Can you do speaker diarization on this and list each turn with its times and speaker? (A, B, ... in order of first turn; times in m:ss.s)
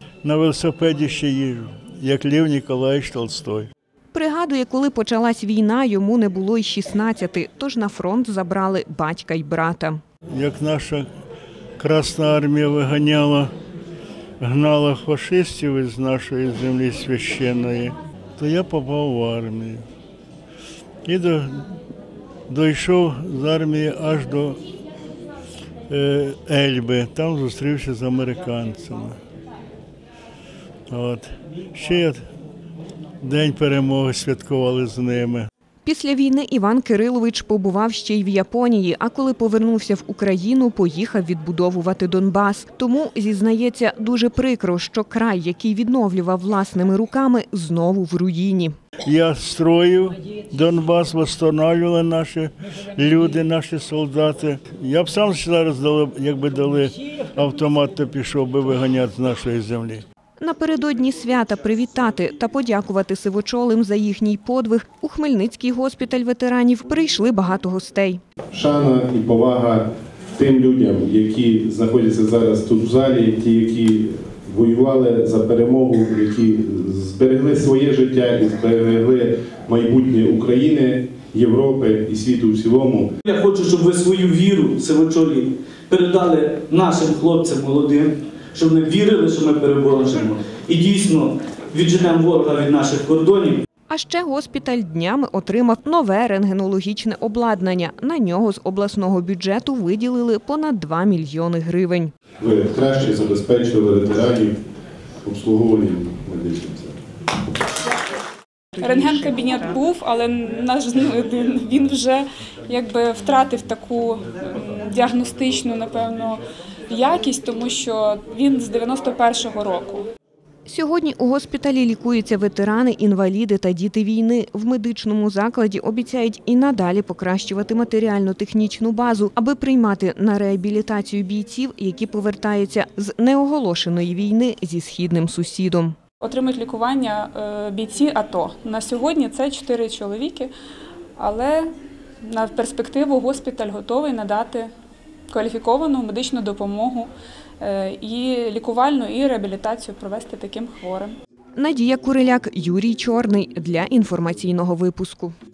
0:00.2-0:03.7 A
0:04.1-0:10.0 B
0:10.3-0:11.1 A
0:11.8-0:13.5 A
0:14.4-0:19.8 A
0:21.0-0:21.6 A
0:22.5-0:24.6 A
0:25.9-0:29.2 A
0:30.9-0:32.2 A
0:33.2-0:35.5 A
0:35.8-0:48.7 B
0:49.0-1:00.0 A
1:00.4-1:08.2 B
1:08.5-1:09.8 C
1:10.4-1:23.1 C
1:23.2-1:33.6 D
1:33.9-1:42.1 B
1:42.4-1:44.5 C
1:45.2-1:47.0 C
1:48.7-1:49.7 B
1:48.8-2:00.0 E
2:00.7-2:16.0 B
2:16.2-2:20.5 E
2:21.2-2:21.7 E
2:22.2-2:24.7 E
2:25.3-2:31.2 E
2:31.6-2:35.4 B